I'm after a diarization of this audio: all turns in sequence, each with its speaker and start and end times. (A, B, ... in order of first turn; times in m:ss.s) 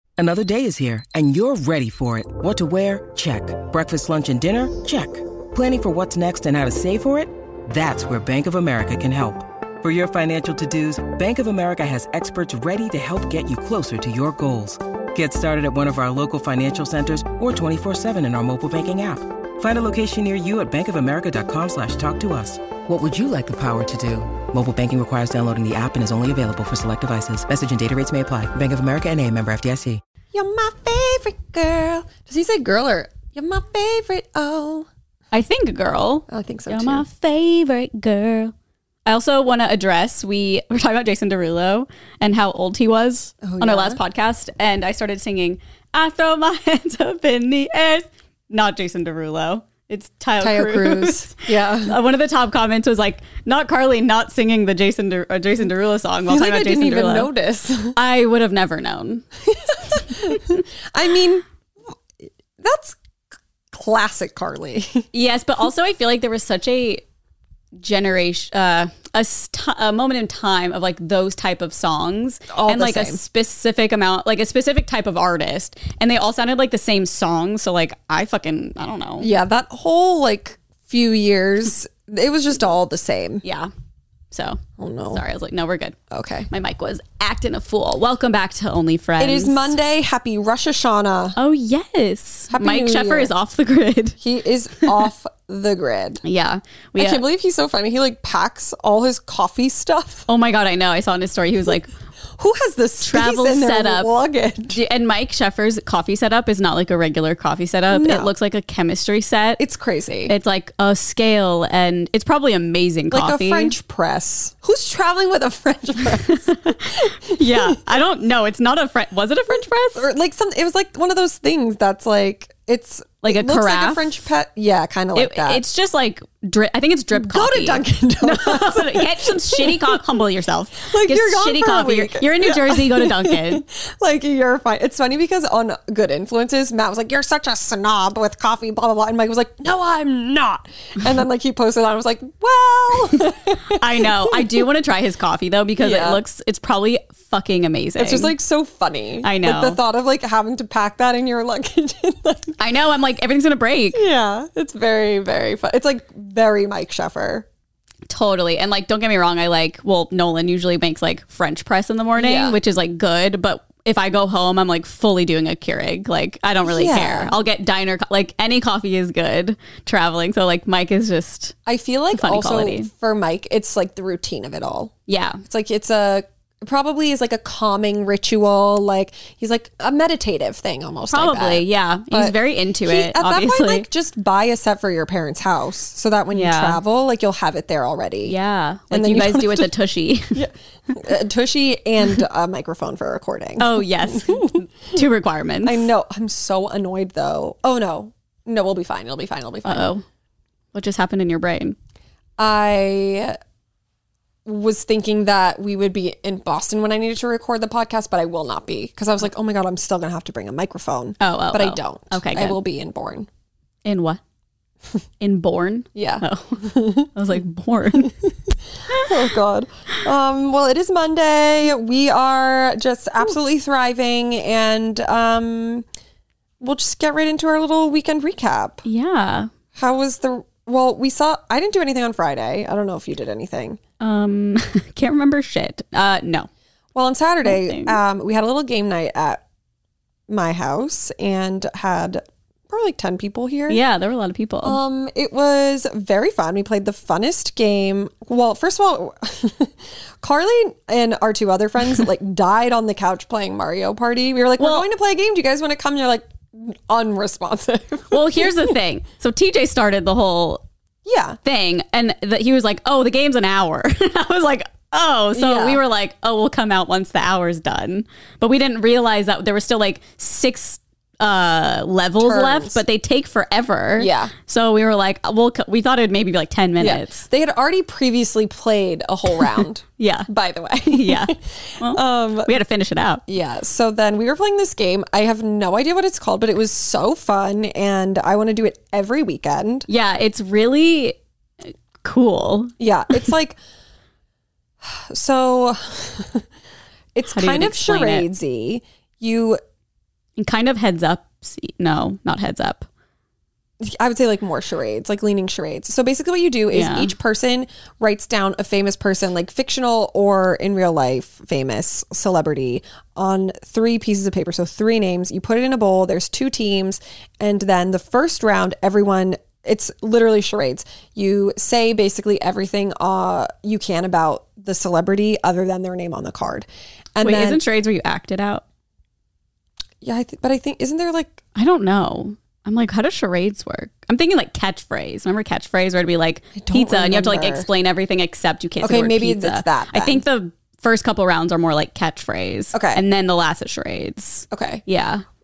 0:00.2-0:30.0 A
0:30.3-0:34.9 B
0:35.3-0:38.5 C
0:36.3-0:37.0 B
0:39.1-0:57.3 C
0:43.4-0:44.0 B
0:50.4-0:52.0 B
0:56.3-0:58.0 B
0:58.0-0:59.2 C
0:59.5-1:01.4 B
1:02.6-1:03.0 B
1:03.7-1:05.1 B
1:05.1-1:07.0 C
1:07.8-1:19.3 C
1:12.5-1:13.2 B
1:19.2-1:23.4 B
1:23.4-1:23.7 C
1:24.3-1:24.6 C
1:24.8-1:25.2 B
1:25.1-1:26.0 C
1:26.1-1:26.5 B
1:26.5-1:29.7 C
1:29.2-1:31.4 B
1:31.4-1:34.2 C
1:32.5-1:33.3 B
1:34.2-1:36.2 B
1:36.2-1:37.2 C
1:37.0-1:40.3 B
1:40.3-1:41.9 C
1:42.4-1:44.8 B
1:43.0-1:44.1 C
1:44.7-1:49.6 C
1:47.9-1:48.3 B
1:49.6-1:50.3 B
1:50.3-1:53.8 C
1:53.1-1:57.8 B
1:56.3-2:00.1 C
2:00.0-2:05.6 B
2:03.2-2:04.3 C
2:05.2-2:13.6 C
2:07.1-2:10.0 B
2:10.9-2:24.5 B
2:23.7-2:28.3 C
2:25.8-2:26.2 B
2:28.0-2:32.5 B
2:29.2-2:29.8 C
2:32.6-2:34.0 C
2:33.9-2:37.4 B
2:38.1-2:51.6 C
2:42.2-2:42.6 B
2:46.6-2:47.4 B
2:51.7-2:54.9 B
2:52.1-2:52.9 C
2:55.1-2:55.4 C
2:55.4-3:08.4 B
3:01.1-3:03.9 C
3:06.3-3:06.8 C
3:08.2-3:10.4 C
3:08.9-3:09.7 B
3:10.4-3:14.6 B
3:13.6-3:15.9 C
3:15.6-3:19.9 B
3:19.7-3:20.0 C
3:20.7-3:21.8 C
3:22.4-3:23.4 B
3:24.4-3:33.3 B
3:31.2-3:32.6 C
3:33.8-3:34.2 C
3:35.2-3:38.1 C
3:36.0-3:37.1 B
3:38.9-3:45.8 B
3:46.6-3:48.8 B
3:48.9-3:49.5 C
3:49.8-3:53.8 B
3:54.0-3:56.5 C
3:57.0-3:59.4 B
3:57.4-3:58.0 C
4:00.3-4:03.8 B
4:03.7-4:04.8 C
4:04.6-4:18.7 B
4:14.6-4:14.9 C
4:18.1-4:20.6 C
4:21.0-4:21.4 B
4:21.4-4:37.3 C
4:25.4-4:25.8 B
4:32.2-4:32.8 B
4:34.0-4:34.3 B
4:36.8-4:42.5 B
4:40.0-4:40.3 C
4:40.9-4:43.2 C
4:43.3-4:49.9 B
4:49.9-4:52.7 C
4:52.8-4:53.6 B
4:54.9-4:56.4 B
4:57.2-4:59.6 B
4:57.3-4:58.3 C
5:00.4-5:02.9 C
5:03.8-5:27.6 B
5:06.7-5:07.1 C
5:27.2-5:28.6 C
5:30.0-5:31.4 B
5:31.6-5:45.2 C
5:36.6-5:37.7 B
5:38.8-5:40.2 B
5:42.7-5:43.0 B
5:44.5-5:44.8 B